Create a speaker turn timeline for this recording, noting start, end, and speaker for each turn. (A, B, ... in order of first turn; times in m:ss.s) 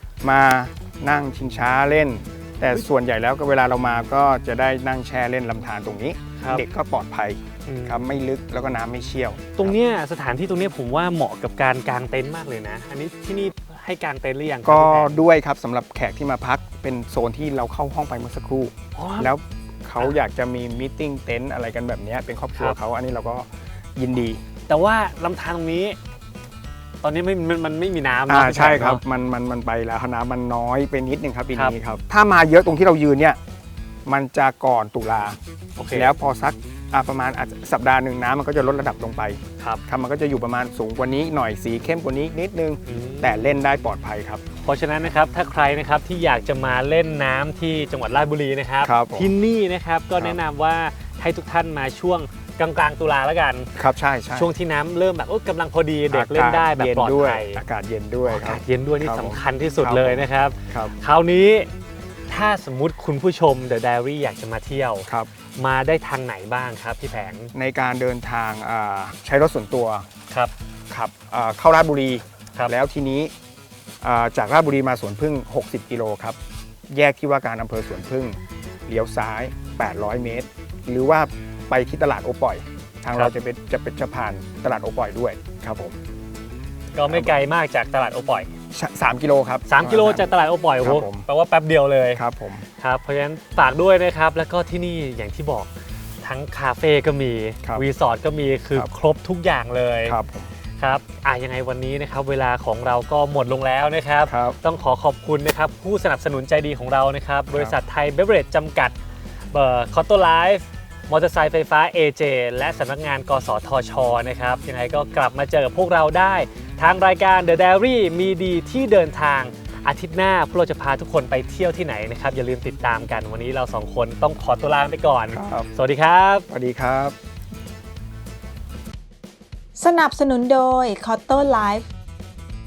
0:00.2-0:09.8 A
0:06.4-0:06.6 B
0:07.7-0:08.1 B
0:09.6-0:15.1 B
0:14.6-0:24.4 A
0:19.0-0:19.3 B
0:24.7-0:26.0 B
0:27.0-0:29.0 B
0:28.3-0:33.4 A
0:34.1-0:35.4 A
0:35.8-0:36.1 B
0:35.9-0:44.4 A
0:42.9-0:43.6 B
0:44.6-0:53.7 B
0:48.8-0:49.3 A
0:53.8-0:54.5 A
0:54.3-0:57.6 B
0:56.1-1:00.9 A
0:58.2-1:01.7 B
1:02.3-1:07.5 B
1:07.5-1:10.0 A
1:10.9-1:13.3 A
1:14.0-1:16.4 A
1:16.9-1:26.0 A
1:26.9-1:28.5 B
1:27.1-1:27.3 A
1:28.7-1:30.3 A
1:29.7-1:32.2 B
1:30.8-1:31.3 A
1:32.2-1:32.6 A
1:32.8-1:40.2 B
1:40.1-1:40.5 A
1:40.8-1:49.0 B
1:44.3-1:44.6 A
1:49.5-2:06.5 B
2:05.3-2:05.7 A
2:06.5-2:07.2 A
2:09.8-2:11.9 C